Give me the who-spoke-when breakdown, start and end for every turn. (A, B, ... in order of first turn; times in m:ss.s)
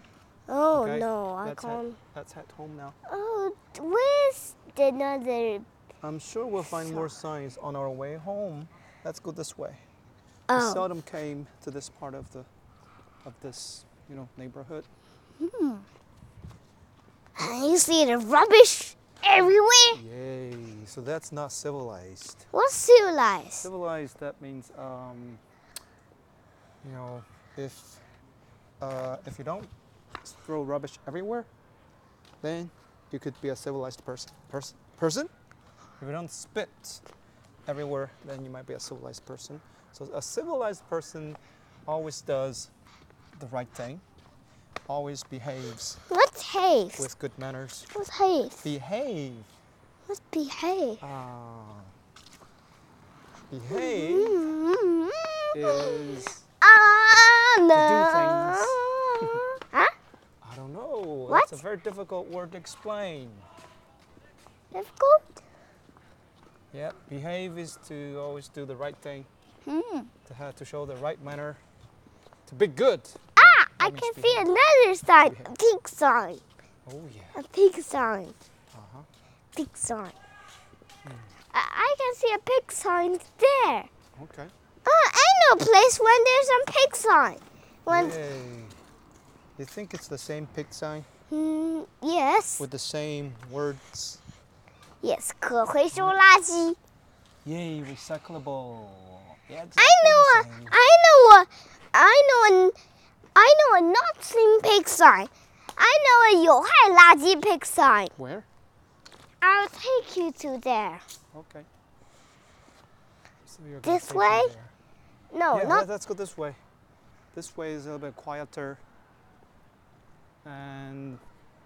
0:00.5-0:02.0 A
0:00.7-0:03.0 B
0:03.1-0:05.6 A
0:06.0-0:09.8 B
0:10.5-0:10.9 A
0:10.5-0:12.5 B
0:13.2-0:14.9 B
0:15.4-0:15.8 A
0:17.4-0:20.0 A
0:19.3-0:22.4 B
0:22.5-0:23.7 A
0:23.6-0:25.4 B
0:26.8-0:28.0 B
0:28.8-0:29.7 B
0:30.2-0:31.5 B
0:32.4-0:35.3 B
0:36.0-0:37.0 B
0:37.6-0:42.7 B
0:43.3-0:44.0 B
0:44.9-0:46.0 B
0:46.1-0:47.1 A
0:47.0-0:47.9 B
0:47.9-0:48.7 A
0:48.6-0:49.5 B
0:50.1-0:51.0 A
0:51.0-0:51.9 B
0:53.5-0:54.4 B
0:53.7-0:59.9 A
0:55.5-0:56.4 B
0:57.7-0:59.4 B
1:00.4-1:03.4 B
1:01.3-1:01.6 A
1:04.7-1:05.4 A
1:06.7-1:09.3 B
1:09.6-1:10.1 A
1:10.2-1:11.6 B
1:12.4-1:14.5 B
1:13.4-1:16.4 A
1:15.2-1:15.5 B
1:16.8-1:17.4 B
1:17.3-1:18.3 A
1:18.7-1:19.1 B
1:19.6-1:20.2 A
1:21.0-1:21.3 B
1:21.5-1:23.9 A
1:24.2-1:24.5 B
1:24.8-1:28.2 A
1:27.9-1:28.8 B
1:29.6-1:31.1 B
1:31.3-1:32.6 A
1:32.6-1:34.2 B
1:35.0-1:36.8 A
1:35.9-1:36.2 B
1:37.4-1:40.8 B
1:39.8-1:42.8 A
1:43.3-1:48.1 A
1:48.1-1:48.5 B
1:49.4-1:51.0 A
1:51.3-1:51.7 B
1:53.4-1:54.7 B
1:53.8-1:54.5 A
1:55.3-1:55.9 A
1:55.5-1:56.6 B
1:57.3-1:58.8 B
2:00.4-2:01.2 B